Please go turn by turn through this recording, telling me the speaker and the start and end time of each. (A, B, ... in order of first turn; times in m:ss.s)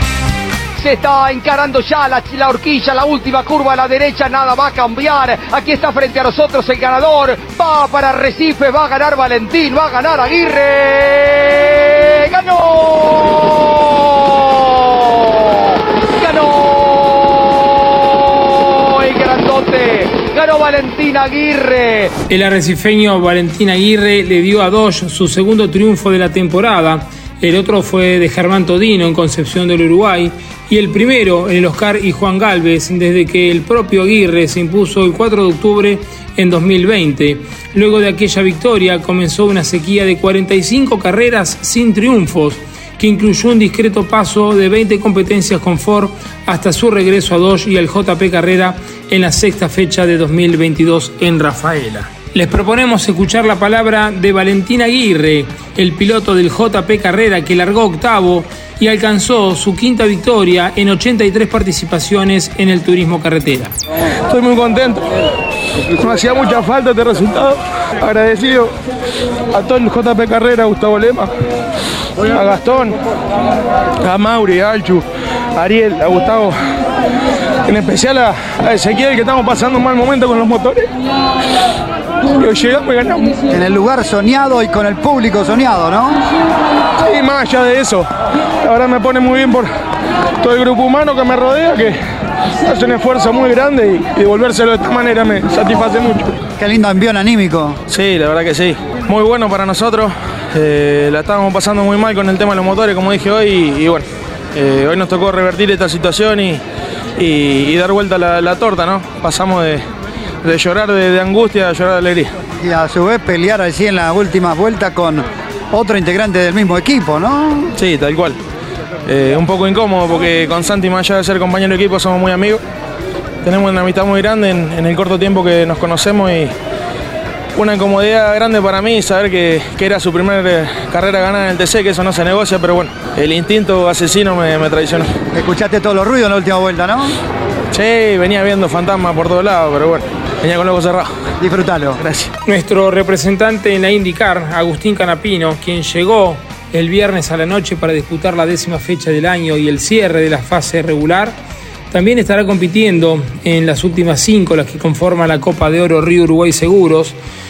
0:00.8-0:22.1 A
0:22.3-1:03.7 B
1:04.2-1:05.2 C
1:05.9-1:08.7 C
1:09.5-1:11.3 C
1:12.2-1:13.0 C
1:14.0-1:16.6 C
1:17.6-1:20.9 C
1:22.3-1:23.4 C
1:23.5-1:26.2 D
1:27.0-1:28.0 C
1:28.6-1:29.7 C
1:30.4-1:32.0 C
1:32.6-1:36.3 C
1:36.6-1:37.8 D
1:37.9-1:46.6 C
1:47.2-1:49.8 C
1:50.4-1:52.3 C
1:52.6-1:57.7 D
1:57.8-1:58.4 C
1:59.0-2:02.6 C
2:03.4-2:06.5 C
2:07.5-2:15.1 C
2:15.3-2:17.2 D
2:17.7-2:21.1 C
2:21.4-2:22.0 D
2:22.0-2:22.3 C
2:22.4-2:31.4 B
2:31.9-2:37.2 B